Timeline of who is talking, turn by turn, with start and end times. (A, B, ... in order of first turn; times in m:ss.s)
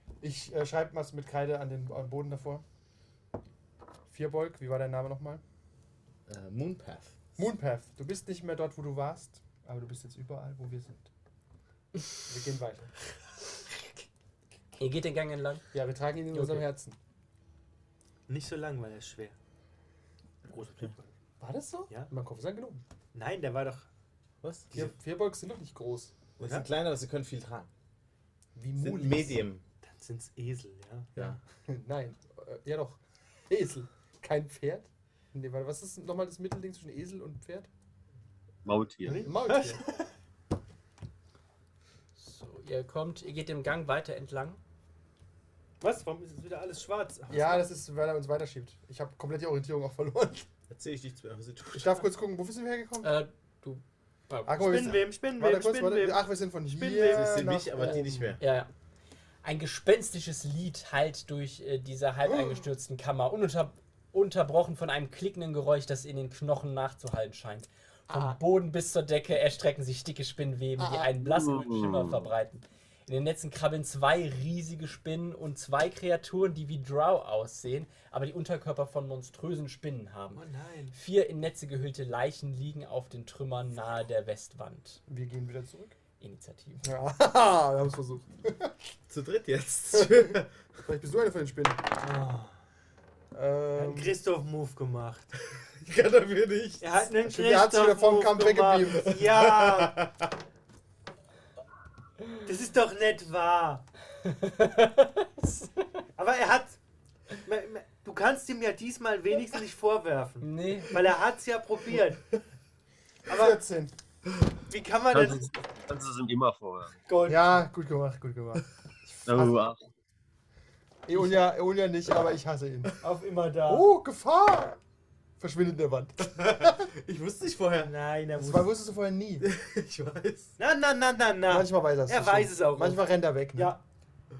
0:00.2-0:02.6 A
0:04.1-0:05.4 A
0:06.3-0:07.1 B
0:07.4-0:11.1 A
0:12.3-0:12.9 A
0:14.8-0:15.7 C
0:15.7-0:17.0 A
0:16.3-0:16.7 C
0:18.3-0:19.4 D
0:20.5-0:21.1 D
0:21.4-0:22.8 A
0:23.1-0:23.9 D
0:24.4-0:24.7 B
0:24.7-0:26.2 A
0:26.4-0:27.7 B
0:26.4-0:26.7 D
0:28.6-0:29.4 A
0:28.8-0:29.6 B
0:29.8-0:31.1 D
0:31.2-0:37.7 A
0:38.6-0:39.3 E
0:39.0-0:40.1 D
0:39.2-0:39.8 A
0:42.2-0:44.6 C
0:45.8-0:47.7 D
0:47.3-0:50.5 A
0:50.7-0:51.9 B
0:51.7-0:53.2 A
0:53.0-0:54.6 C
0:54.5-0:58.4 A
0:54.6-0:57.8 D
0:57.0-0:58.4 B
0:58.4-0:58.7 C
0:59.4-1:25.0 C
1:08.1-1:08.4 A
1:10.8-1:11.1 A
1:11.3-1:12.2 E
1:20.3-1:21.0 D
1:25.1-1:26.0 A
1:26.2-1:26.9 C
1:26.8-1:28.7 A
1:29.1-1:30.5 B
1:30.0-1:31.9 A
1:32.0-1:32.5 D
1:33.3-1:34.2 A
1:33.8-1:35.4 D
1:35.8-1:36.9 B
1:36.8-1:40.0 D
1:37.2-1:39.2 A
1:39.2-1:40.3 B
1:42.4-1:43.9 D
1:44.2-1:45.7 C
1:46.2-1:46.8 D
1:47.4-1:52.4 D
1:50.4-1:51.0 C
1:53.3-1:53.6 D
1:53.3-1:53.9 A
1:54.7-1:55.5 D
1:55.1-1:57.0 E
1:57.1-1:57.6 D
1:57.2-1:59.6 A
1:59.3-1:59.8 E
2:01.1-2:03.0 A
2:01.2-2:01.5 D
2:03.0-2:03.9 D
2:03.7-2:04.8 A
2:05.4-2:06.9 A
2:06.2-2:07.9 B
2:07.8-2:08.8 D
2:08.4-2:09.5 A
2:09.4-2:10.6 B
2:10.6-2:13.8 D
2:11.5-2:13.8 A